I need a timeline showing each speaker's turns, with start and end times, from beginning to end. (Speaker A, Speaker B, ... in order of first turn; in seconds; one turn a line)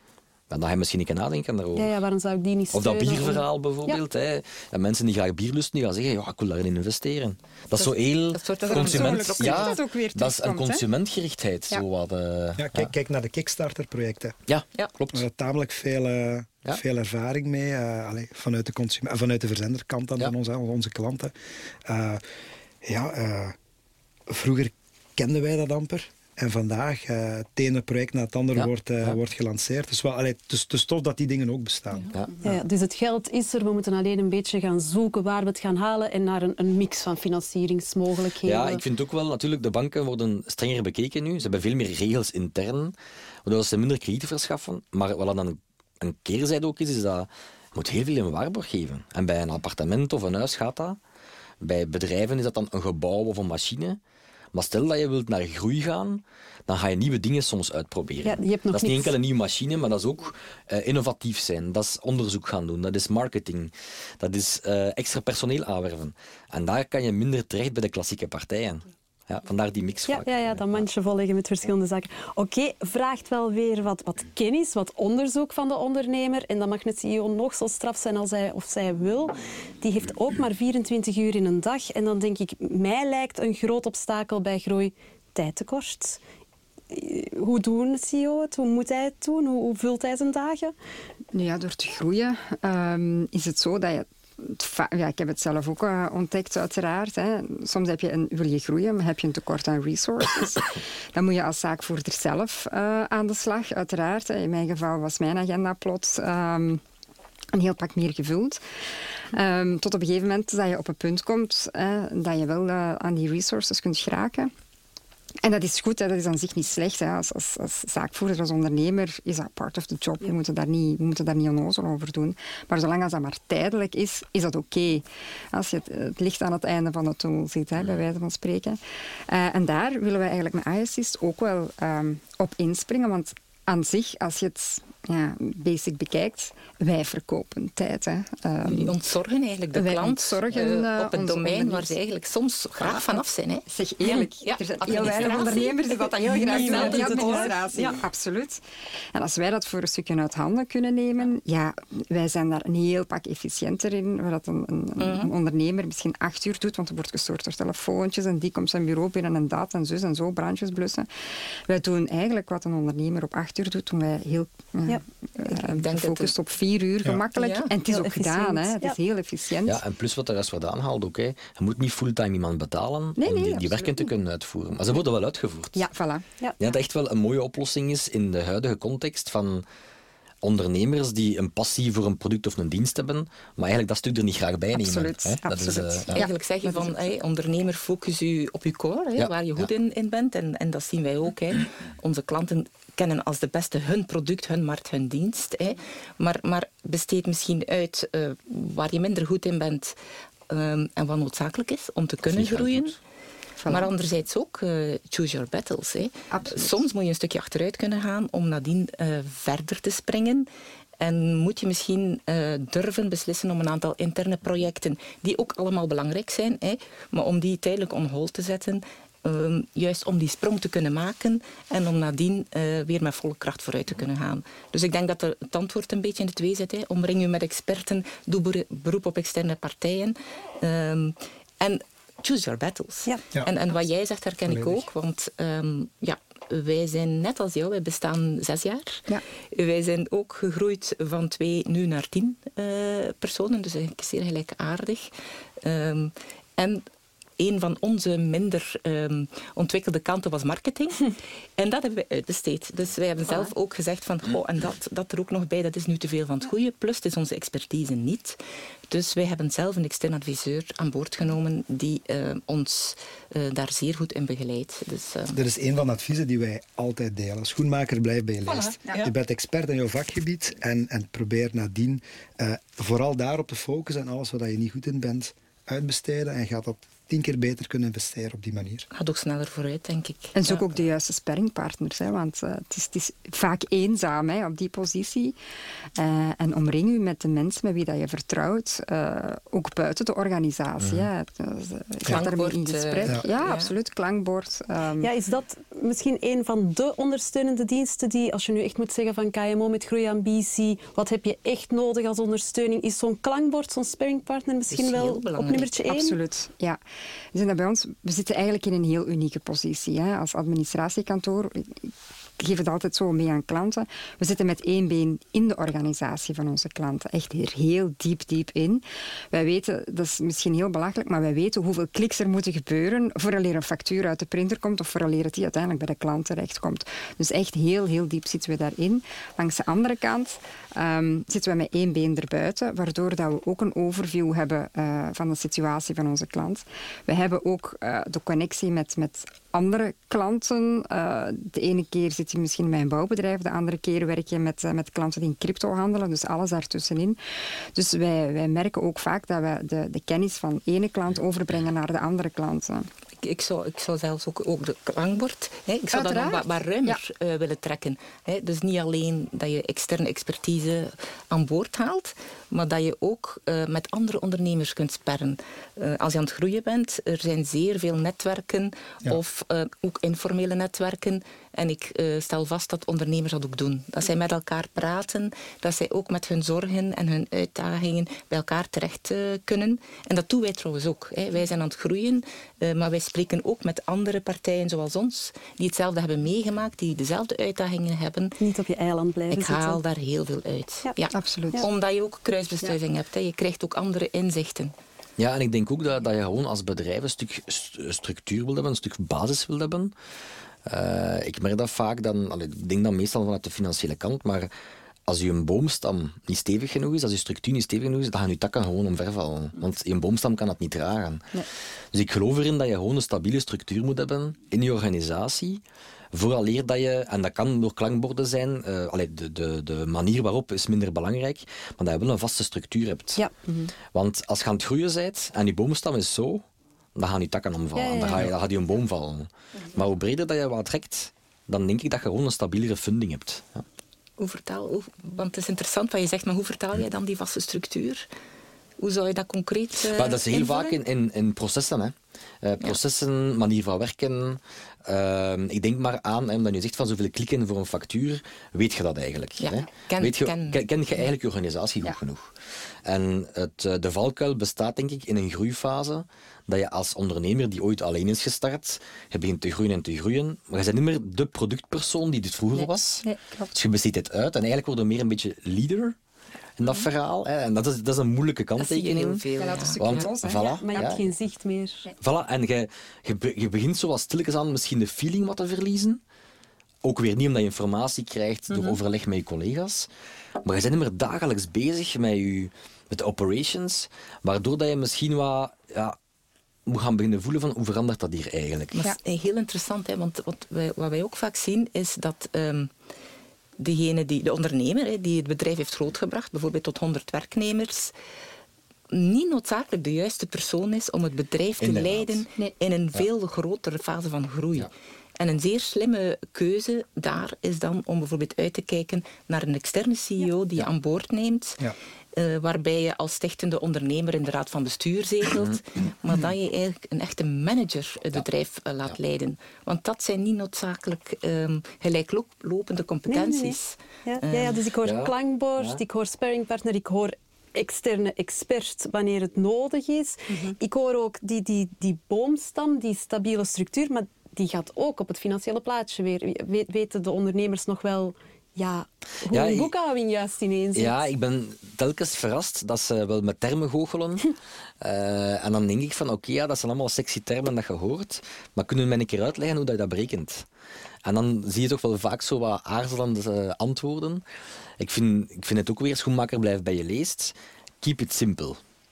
Speaker A: 0.5-1.9
Speaker B: 1.8-4.0
Speaker A: 2.7-12.9
Speaker C: 7.8-9.8
Speaker D: 8.7-10.8
Speaker E: 12.6-14.4
Speaker A: 14.5-15.2
Speaker E: 15.1-21.3
Speaker E: 21.9-22.2
Speaker E: 22.8-23.6
Speaker E: 24.3-32.6
Speaker A: 28.6-29.2
Speaker B: 32.4-38.8
Speaker A: 38.4-42.9
Speaker A: 43.5-51.0
Speaker A: 51.6-54.0
Speaker A: 54.5-70.8
Speaker B: 58.2-59.1
Speaker B: 70.1-86.2
Speaker B: 86.9-90.7
Speaker D: 91.3-106.8
Speaker D: 107.5-108.6
Speaker D: 109.3-114.5
Speaker D: 115.4-139.0
Speaker C: 138.6-147.5
Speaker D: 139.7-142.0
Speaker D: 142.8-148.6
Speaker B: 146.3-148.0
Speaker D: 149.1-161.1
Speaker C: 155.0-155.3
Speaker D: 161.7-169.8
Speaker C: 165.5-166.3
Speaker C: 167.4-167.7
Speaker B: 167.8-169.0
Speaker A: 169.7-175.9
Speaker D: 173.2-174.1
Speaker D: 175.9-176.2
Speaker A: 176.6-179.6
Speaker A: 180.4-186.2
Speaker D: 184.7-187.1
Speaker C: 186.1-199.9
Speaker A: 189.2-189.7
Speaker C: 200.5-203.0
Speaker A: 202.2-202.9
Speaker D: 203.6-203.9
Speaker C: 203.6-210.5
Speaker D: 206.3-206.7
Speaker C: 211.0-246.9
Speaker E: 234.5-234.8
Speaker C: 247.4-258.4
Speaker C: 258.9-265.4
Speaker E: 265.3-278.9
Speaker C: 268.5-269.1
Speaker C: 278.9-280.6
Speaker D: 280.4-285.4
Speaker D: 286.0-295.1
Speaker A: 290.8-291.1
Speaker C: 292.1-293.7
Speaker B: 295.0-306.2
Speaker C: 304.7-305.8
Speaker D: 305.9-306.8
Speaker D: 307.3-347.2
Speaker D: 347.7-352.9
Speaker C: 353.2-388.4
Speaker D: 355.9-357.0
Speaker B: 388.4-389.8
Speaker C: 389.3-394.7
Speaker D: 391.1-391.7
Speaker A: 395.2-399.9
Speaker A: 400.7-404.5
Speaker A: 405.1-411.4
Speaker A: 411.9-415.6
Speaker A: 416.1-423.2
Speaker A: 423.9-426.4
Speaker A: 426.9-433.6
Speaker B: 427.8-428.3
Speaker C: 434.2-438.1
Speaker C: 438.8-440.8
Speaker A: 439.9-452.3
Speaker C: 449.4-450.6
Speaker A: 452.9-466.0
Speaker D: 462.5-463.5
Speaker A: 466.6-471.1
Speaker C: 468.6-470.1
Speaker D: 469.4-470.5
Speaker B: 470.5-471.9
Speaker A: 472.0-476.0
Speaker A: 476.8-479.9
Speaker A: 480.4-486.0
Speaker A: 486.7-488.8
Speaker C: 488.7-492.7
Speaker C: 493.6-497.9
Speaker C: 498.9-511.6
Speaker A: 501.6-502.2
Speaker C: 512.2-524.6
Speaker B: 523.1-541.0
Speaker A: 524.8-525.8
Speaker C: 530.3-530.6
Speaker A: 539.3-539.7
Speaker A: 540.8-550.5
Speaker A: 551.0-554.2
Speaker A: 554.8-558.6